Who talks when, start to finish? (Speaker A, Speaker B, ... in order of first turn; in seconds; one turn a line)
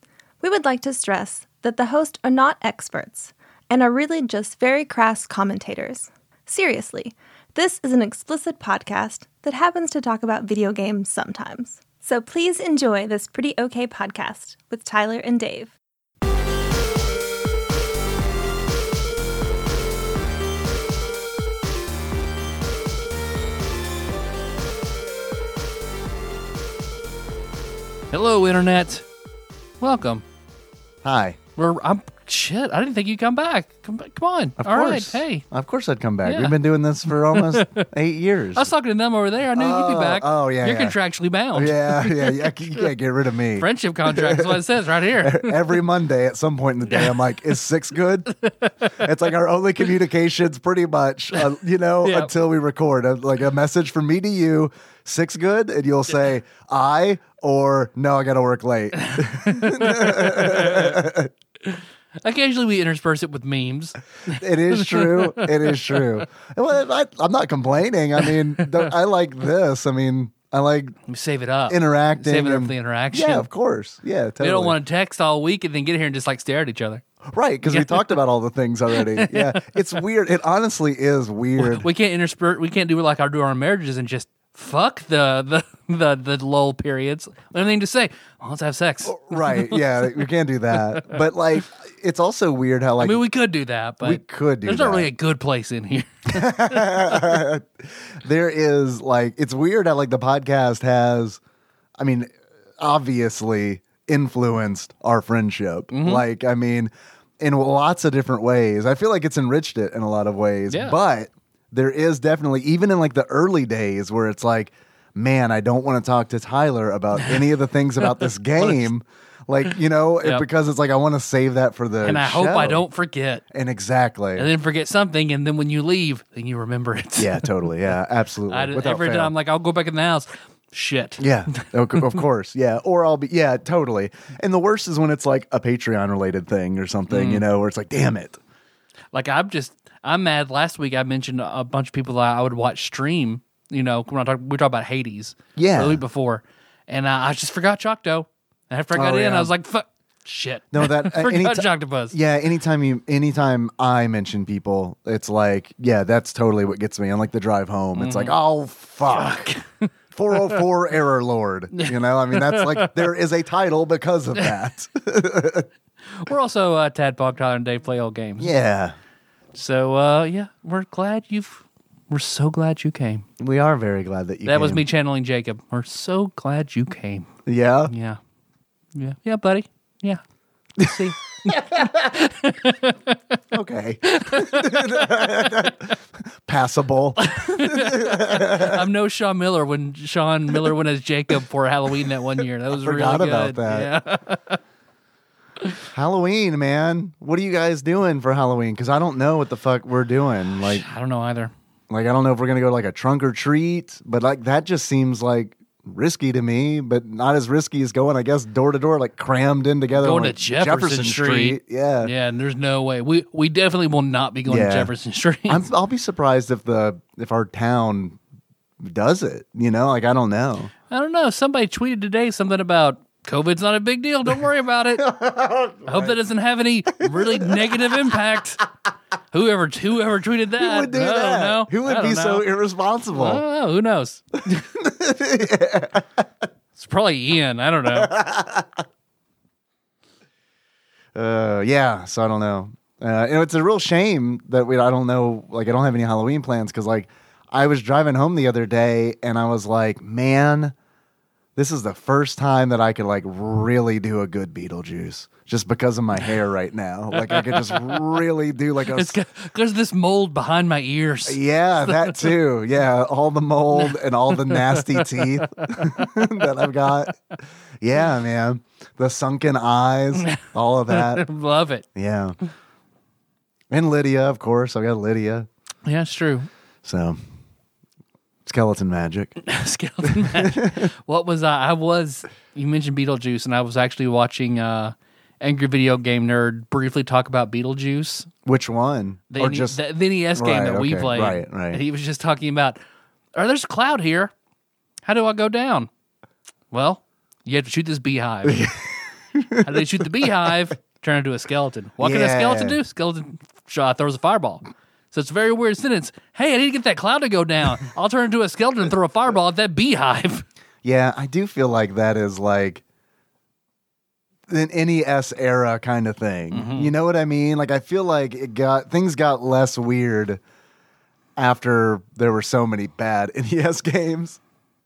Speaker A: 0.4-15.8
Speaker B: 28.1-29.1
Speaker B: 29.8-30.2
Speaker C: 31.0-31.4
Speaker B: 31.6-35.4
Speaker C: 34.6-38.7
Speaker B: 36.2-36.6
Speaker B: 37.1-37.9
Speaker B: 38.5-42.9
Speaker C: 39.5-41.0
Speaker C: 41.5-44.6
Speaker B: 43.6-45.8
Speaker C: 45.2-48.3
Speaker B: 46.9-47.2
Speaker B: 48.4-49.1
Speaker C: 48.9-61.3
Speaker B: 52.0-52.3
Speaker B: 59.0-61.0
Speaker B: 61.6-66.2
Speaker C: 64.3-71.0
Speaker B: 71.1-73.5
Speaker C: 71.7-74.8
Speaker B: 74.4-77.0
Speaker C: 77.3-81.9
Speaker B: 77.7-78.2
Speaker B: 79.0-79.8
Speaker B: 81.6-90.1
Speaker C: 89.0-93.2
Speaker B: 90.8-91.2
Speaker B: 93.0-97.4
Speaker C: 94.0-95.1
Speaker C: 96.3-101.4
Speaker C: 102.0-122.8
Speaker B: 105.9-106.2
Speaker B: 110.7-111.0
Speaker B: 117.2-118.9
Speaker B: 122.0-123.4
Speaker C: 123.5-124.5
Speaker B: 124.4-127.5
Speaker C: 127.2-129.3
Speaker B: 128.5-132.2
Speaker C: 131.2-138.4
Speaker B: 137.1-137.4
Speaker B: 139.1-152.2
Speaker C: 145.6-146.0
Speaker C: 148.9-149.5
Speaker C: 150.7-159.5
Speaker B: 158.0-158.3
Speaker B: 159.1-160.6
Speaker C: 160.1-165.7
Speaker B: 161.8-163.0
Speaker B: 166.1-168.5
Speaker C: 168.4-169.0
Speaker B: 169.5-173.3
Speaker C: 173.4-174.8
Speaker B: 174.5-177.3
Speaker C: 177.5-177.9
Speaker B: 177.9-178.2
Speaker B: 178.9-180.2
Speaker B: 180.8-183.2
Speaker C: 180.8-181.9
Speaker C: 183.5-185.9
Speaker B: 184.1-185.8
Speaker C: 186.4-188.8
Speaker B: 187.2-194.6
Speaker C: 192.8-193.9
Speaker C: 195.9-200.9
Speaker B: 200.6-201.5
Speaker C: 201.9-212.1
Speaker B: 209.9-215.6
Speaker C: 214.5-214.9
Speaker C: 215.5-218.2
Speaker C: 218.8-220.7
Speaker B: 220.9-225.1
Speaker C: 225.0-226.2
Speaker B: 225.9-228.7
Speaker C: 226.9-228.2
Speaker B: 229.3-232.5
Speaker C: 230.6-233.4
Speaker B: 233.1-234.7
Speaker C: 234.8-236.3
Speaker B: 236.8-238.1
Speaker C: 237.9-238.8
Speaker C: 241.2-250.8
Speaker C: 251.6-259.2
Speaker B: 257.1-258.1
Speaker B: 258.9-262.4
Speaker C: 261.3-267.2
Speaker B: 263.7-266.2
Speaker C: 267.8-271.2
Speaker B: 270.1-271.9
Speaker C: 272.0-272.4
Speaker C: 273.7-275.5
Speaker B: 275.9-276.5
Speaker C: 276.8-277.2
Speaker C: 278.4-279.4
Speaker B: 279.4-288.3
Speaker C: 280.1-280.9
Speaker C: 288.5-289.8
Speaker B: 289.3-292.8
Speaker C: 290.4-291.8
Speaker B: 293.4-294.3
Speaker B: 295.1-295.9
Speaker B: 296.7-298.7
Speaker C: 298.4-300.3
Speaker B: 299.6-310.4
Speaker C: 302.0-302.8
Speaker C: 310.8-312.8
Speaker C: 314.5-320.4
Speaker B: 316.5-316.9
Speaker C: 321.4-324.4